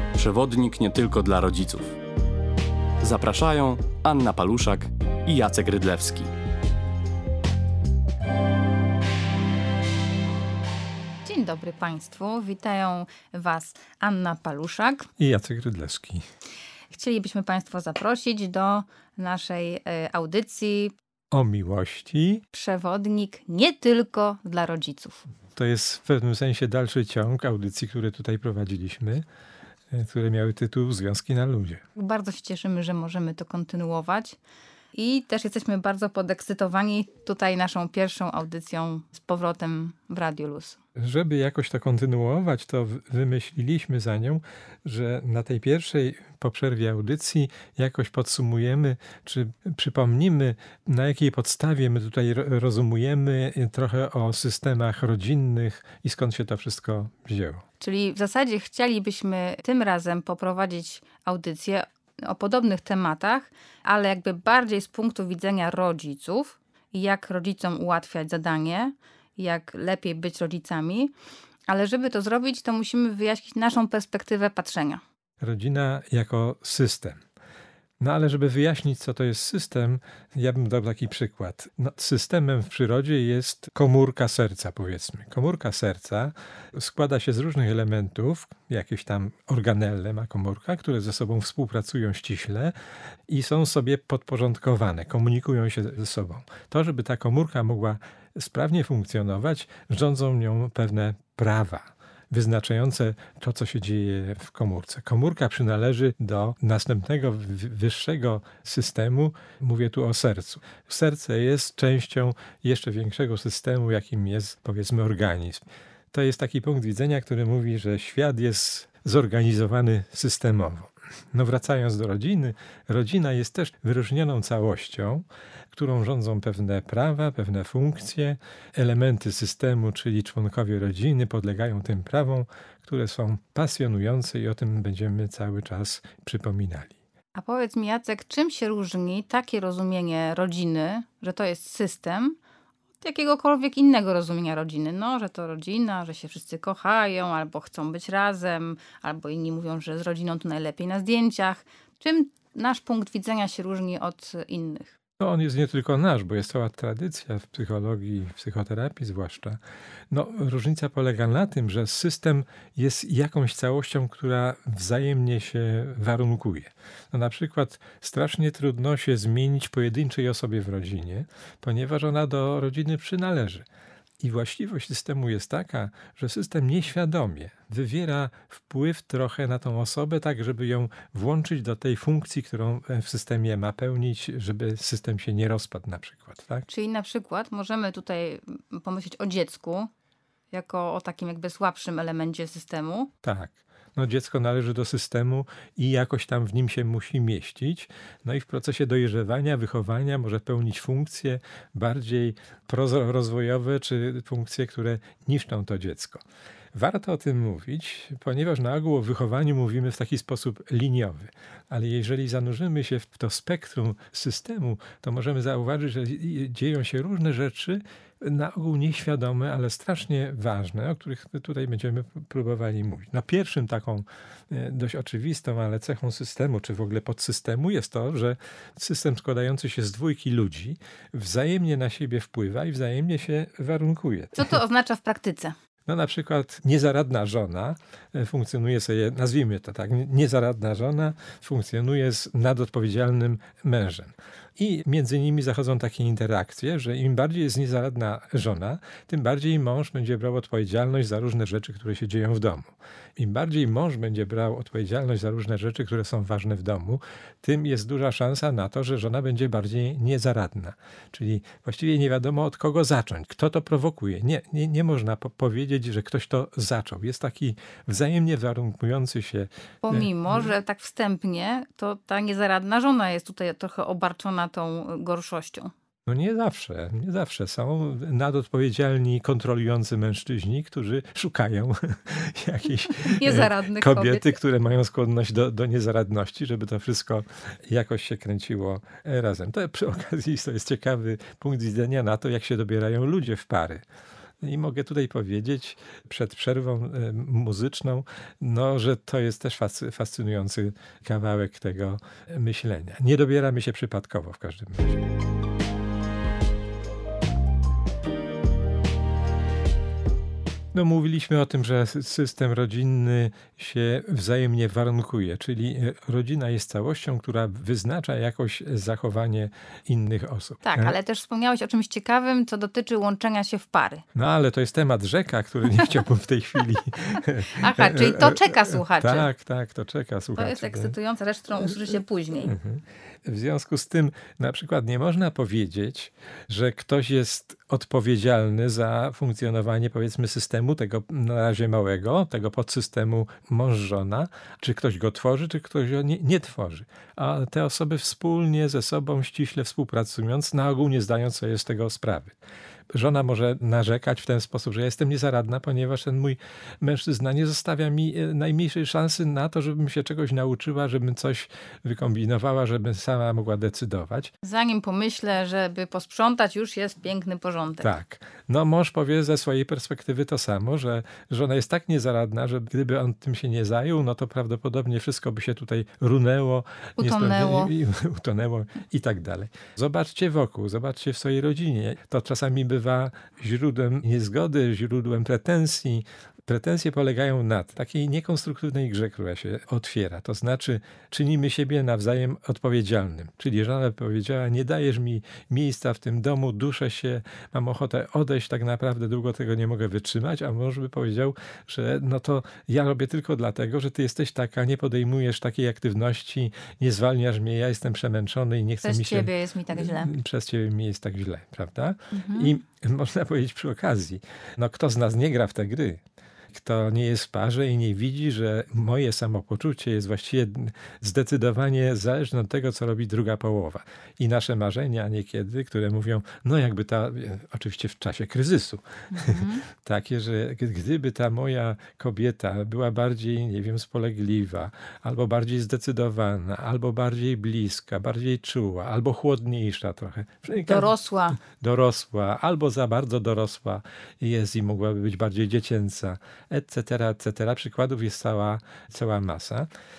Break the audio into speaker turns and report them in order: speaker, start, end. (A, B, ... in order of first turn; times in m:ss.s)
0:00.1-0:01.9 A
0:03.0-0:06.3 A
0:11.2-0:15.1 B
0:15.2-0:16.2 C
0:16.9-0:20.9 B
0:21.3-0:22.4 C
0:22.5-0:25.2 B
0:25.6-0:29.2 C
0:29.9-0:31.8 C
0:32.0-0:34.4 B
0:34.9-0:40.8 B
0:41.0-0:57.6 C
0:57.8-1:11.1 B
1:11.7-1:15.0 B
1:15.4-1:17.2 C
1:18.0-1:32.7 C
1:33.3-2:17.0 C
2:17.3-2:22.4 B
2:23.0-2:34.9 B
2:35.2-2:39.6 C
2:40.1-2:53.6 C
2:54.2-3:06.6 C
3:06.7-3:09.9 B
3:10.5-3:13.1 B
3:13.2-3:26.2 C
3:26.7-3:54.6 C
3:54.3-3:55.5 B
3:55.8-4:30.5 C
4:29.8-4:35.7 B
4:36.1-4:53.8 C
4:43.0-4:44.4 B
4:54.4-5:05.0 C
5:10.7-5:21.0 C
5:20.6-5:24.0 B
5:24.1-5:30.9 C
5:27.2-5:29.3 B
5:30.4-5:32.6 B
5:32.4-5:52.4 C
5:52.9-6:04.3 C
6:04.4-6:07.9 B
6:07.8-7:29.7 C
6:17.0-6:17.7 B
6:48.8-6:50.1 B
6:52.1-6:52.6 B
7:09.1-7:09.6 B
7:20.6-7:21.4 B